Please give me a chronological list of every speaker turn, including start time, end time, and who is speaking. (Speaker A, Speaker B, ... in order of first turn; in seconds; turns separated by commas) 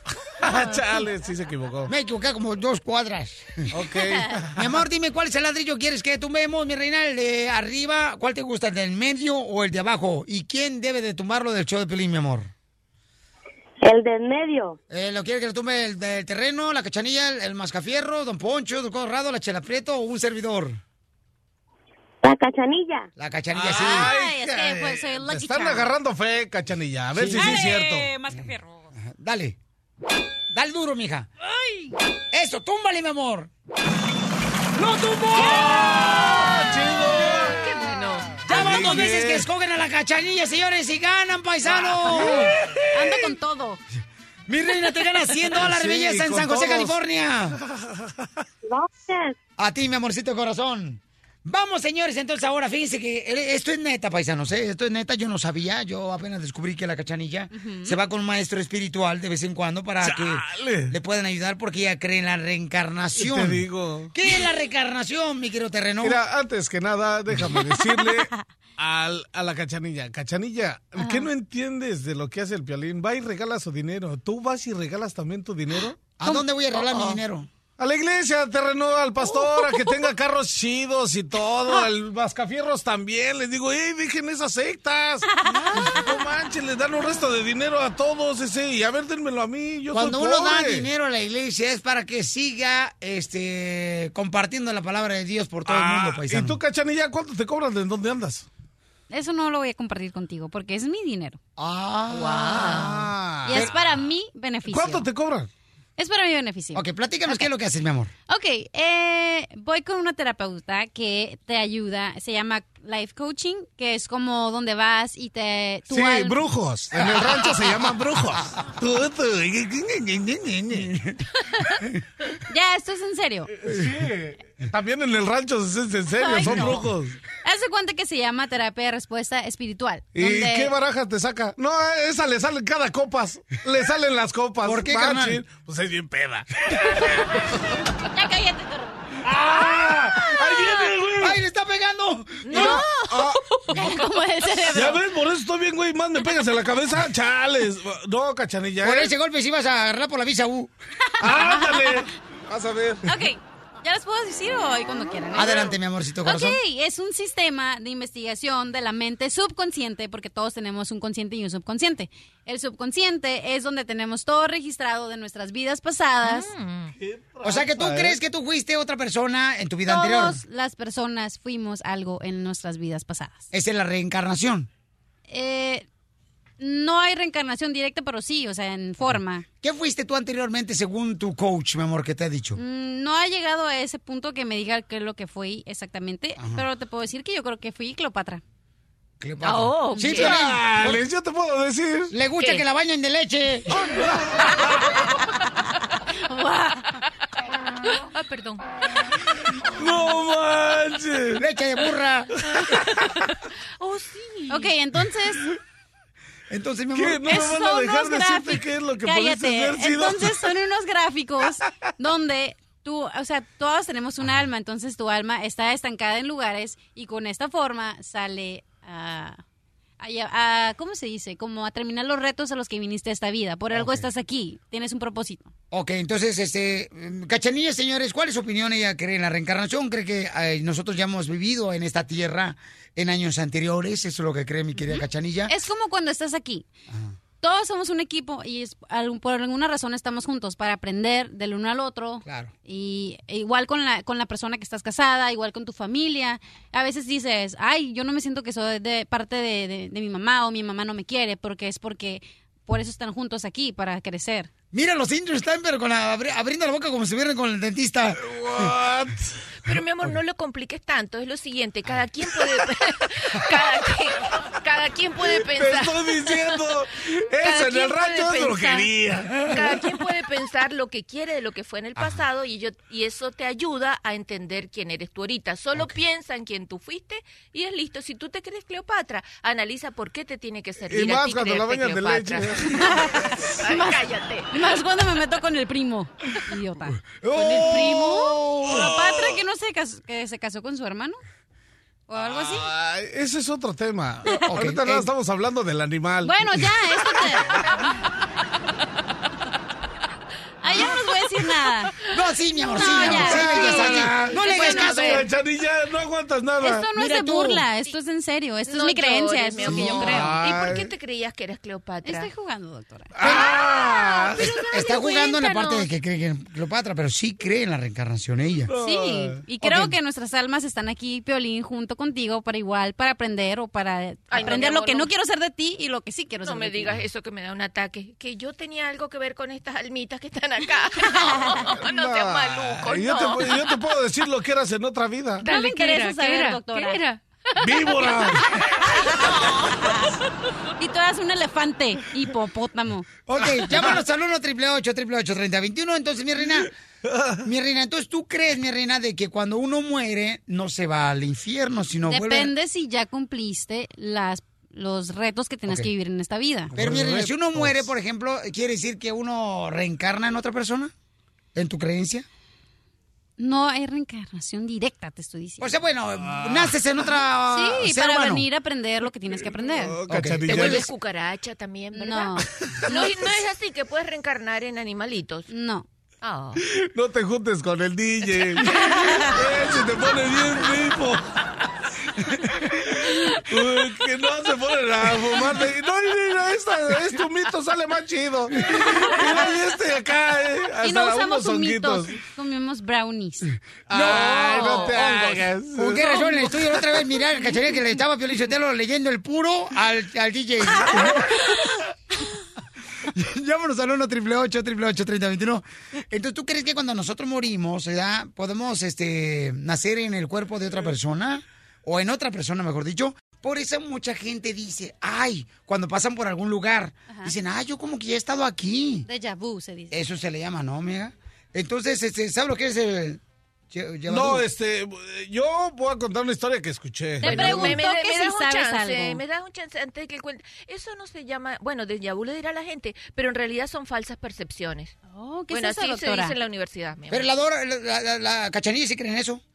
Speaker A: 0.4-1.9, Speaker B: 1.9-3.6, Speaker A: 3.7-4.7, Speaker B: 4.5-12.5, Speaker C: 13.8-14.8, Speaker B: 14.9-20.8, Speaker C: 22.2-23.1, Speaker B: 23.1-24.1, Speaker A: 23.5-28.1, Speaker D: 23.7-25.9, Speaker B: 27.1-27.6, Speaker D: 27.4-28.7, Speaker B: 28.3-29.6, Speaker B: 30.5-31.3, Speaker B: 32.3-33.5, Speaker A: 34.8-37.8, Speaker E: 37.5-38.4, Speaker A: 38.4-39.5, Speaker B: 38.5-42.5, Speaker D: 38.5-39.1, Speaker A: 42.1-43.1, Speaker D: 42.9-43.8, Speaker B: 44.5-47.6, Speaker A: 45.5-46.9, Speaker C: 48.6-49.4, Speaker B: 49.6-63.6, Speaker D: 57.5-57.9, Speaker A: 60.0-60.9, Speaker A: 63.1-64.1, Speaker B: 64.1-66.2, Speaker A: 66.0-76.1, Speaker B: 76.2-77.5, Speaker D: 76.2-77.2, Speaker A: 77.8-90.9, Speaker D: 79.5-80.0, Speaker D: 85.4-86.0, Speaker B: 89.9-96.6, Speaker A: 95.7-98.5, Speaker D: 99.1-101.4, Speaker B: 101.6-103.7, Speaker E: 102.1-102.9, Speaker A: 103.4-104.0, Speaker D: 103.5-105.0, Speaker A: 104.7-105.5, Speaker D: 106.0-107.5, Speaker B: 106.7-108.1, Speaker D: 108.3-116.4, Speaker A: 115.9-120.8, Speaker B: 116.9-117.5, Speaker B: 120.7-121.2, Speaker D: 122.5-123.5, Speaker A: 123.6-127.2, Speaker D: 126.2-126.8, Speaker D: 127.4-130.7, Speaker A: 130.1-137.3, Speaker B: 134.6-135.4, Speaker D: 138.1-139.0, Speaker A: 139.2-141.4, Speaker B: 141.2-142.8, Speaker D: 142.5-145.0, Speaker A: 142.6-143.4, Speaker E: 143.7-144.1, Speaker A: 144.7-149.1, Speaker B: 148.8-150.7, Speaker D: 151.2-151.9, Speaker A: 151.2-153.2, Speaker D: 153.1-155.7, Speaker B: 155.3-156.6, Speaker D: 156.2-166.5, Speaker E: 166.2-166.9, Speaker A: 166.9-168.2, Speaker B: 167.4-170.4, Speaker D: 169.9-173.4, Speaker B: 173.5-174.7, Speaker D: 175.3-175.8, Speaker D: 176.6-179.4, Speaker B: 179.6-182.6, Speaker D: 182.6-188.4, Speaker B: 186.4-186.6, Speaker B: 189.2-191.0, Speaker E: 189.4-190.2, Speaker D: 189.9-190.3, Speaker A: 190.1-192.1, Speaker B: 192.1-193.8, Speaker A: 193.9-194.5, Speaker D: 196.2-197.0, Speaker E: 197.9-198.6, Speaker A: 199.7-201.4, Speaker B: 201.3-202.4, Speaker E: 203.8-204.7, Speaker D: 204.5-205.4, Speaker B: 206.5-207.2, Speaker A: 206.9-210.4, Speaker D: 207.3-219.4, Speaker D: 220.0-225.5, Speaker B: 223.7-224.1, Speaker B: 225.7-235.5, Speaker D: 234.8-236.7, Speaker B: 236.9-237.1, Speaker D: 237.4-254.5, Speaker B: 242.2-242.5, Speaker B: 254.7-258.7, Speaker A: 258.2-259.3, Speaker E: 259.6-266.4, Speaker A: 265.2-269.8, Speaker E: 267.4-268.9, Speaker E: 269.5-282.6, Speaker A: 280.8-283.2, Speaker D: 282.8-291.2, Speaker E: 283.6-284.5, Speaker B: 287.1-288.9, Speaker A: 288.7-289.3, Speaker D: 292.1-292.7, Speaker A: 292.2-296.4, Speaker B: 294.4-295.1, Speaker D: 296.2-297.6, Speaker A: 297.1-297.7, Speaker D: 300.6-301.9, Speaker B: 302.1-305.2, Speaker D: 302.7-305.1, Speaker A: 303.1-306.9, Speaker E: 304.4-305.2, Speaker D: 306.6-310.3, Speaker B: 306.9-307.6, Speaker E: 308.7-312.3, Speaker B: 309.8-310.1, Speaker A: 309.8-310.9, Speaker D: 312.0-315.7, Speaker A: 313.2-314.5, Speaker B: 314.5-318.7, Speaker E: 314.9-315.9, Speaker A: 318.7-319.4, Speaker D: 318.8-327.0, Speaker B: 319.6-319.9, Speaker E: 324.3-325.1, Speaker E: 326.4-333.5, Speaker D: 331.1-331.6, Speaker A: 331.8-335.4, Speaker D: 335.4-337.0, Speaker E: 335.4-338.3, Speaker A: 337.6-338.4, Speaker D: 339.2-340.1, Speaker D: 340.8-343.1, Speaker B: 343.3-346.7, Speaker A: 343.7-343.9, Speaker A: 347.1-347.4, Speaker B: 347.4-352.5, Speaker D: 352.1-356.7, Speaker A: 356.7-357.9, Speaker B: 356.7-360.9, Speaker B: 361.6-362.2, Speaker D: 363.4-365.8, Speaker B: 365.6-368.4, Speaker A: 366.2-366.8, Speaker D: 367.5-369.9, Speaker A: 369.6-370.9, Speaker B: 370.1-370.9, Speaker E: 370.5-375.5, Speaker D: 371.9-373.2, Speaker D: 375.5-375.9, Speaker E: 376.2-376.6, Speaker A: 376.6-381.4, Speaker A: 382.8-392.1, Speaker D: 390.8-393.5, Speaker A: 393.9-396.8, Speaker B: 393.9-401.4, Speaker E: 394.6-394.8, Speaker B: 403.1-419.1, Speaker D: 417.1-417.3, Speaker D: 419.1-419.9, Speaker B: 419.9-423.2, Speaker B: 423.7-424.4, Speaker A: 424.1-427.6, Speaker D: 427.2-429.2, Speaker E: 427.2-434.9, Speaker D: 435.1-436.4, Speaker E: 435.5-437.3, Speaker B: 437.1-439.4